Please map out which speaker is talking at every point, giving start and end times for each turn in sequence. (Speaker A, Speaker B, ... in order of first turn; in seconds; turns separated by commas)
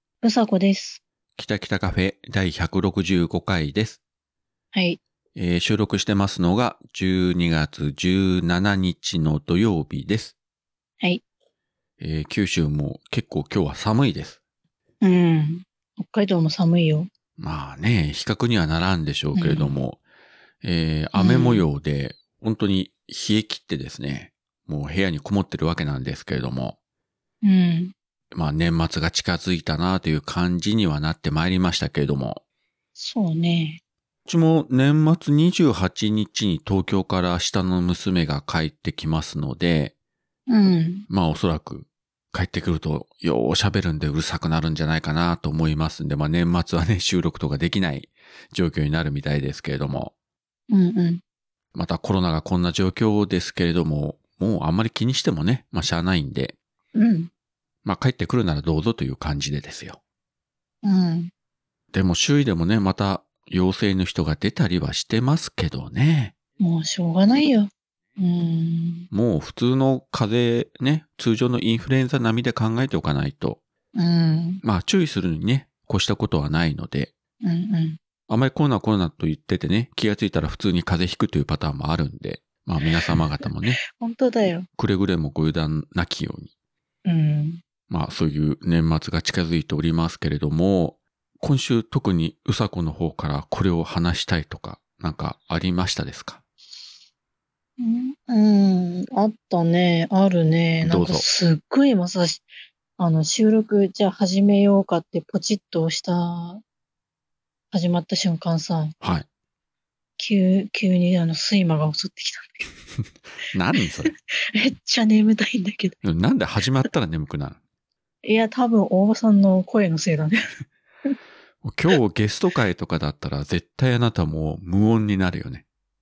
Speaker A: 0.2-1.0, Speaker B: 1.4-4.0, Speaker A: 4.7-5.0, Speaker B: 5.3-10.3, Speaker B: 12.0-14.4, Speaker A: 15.0-17.1, Speaker B: 17.4-20.0, Speaker A: 19.4-19.8, Speaker B: 20.6-26.8, Speaker A: 21.1-21.7, Speaker A: 27.4-27.9, Speaker B: 28.3-32.4, Speaker A: 33.0-33.8, Speaker B: 34.3-39.9, Speaker A: 40.5-41.0, Speaker B: 41.1-50.1, Speaker A: 50.7-51.2, Speaker B: 51.7-56.5, Speaker A: 56.9-57.3, Speaker B: 57.8-60.0, Speaker A: 60.8-61.3, Speaker B: 61.9-66.3, Speaker A: 66.6-69.1, Speaker B: 69.1-73.6, Speaker A: 73.9-74.6, Speaker B: 74.6-77.1, Speaker A: 77.4-78.0, Speaker B: 78.3-83.8, Speaker A: 83.9-84.7, Speaker B: 84.8-86.5, Speaker A: 87.0-87.6, Speaker B: 87.9-96.4, Speaker A: 97.8-102.4, Speaker B: 100.8-101.2, Speaker A: 103.0-106.6, Speaker A: 107.7-108.9, Speaker A: 110.2-112.7, Speaker B: 113.5-114.1, Speaker A: 114.5-116.0, Speaker B: 116.0-117.6, Speaker A: 118.2-120.5, Speaker B: 121.6-125.6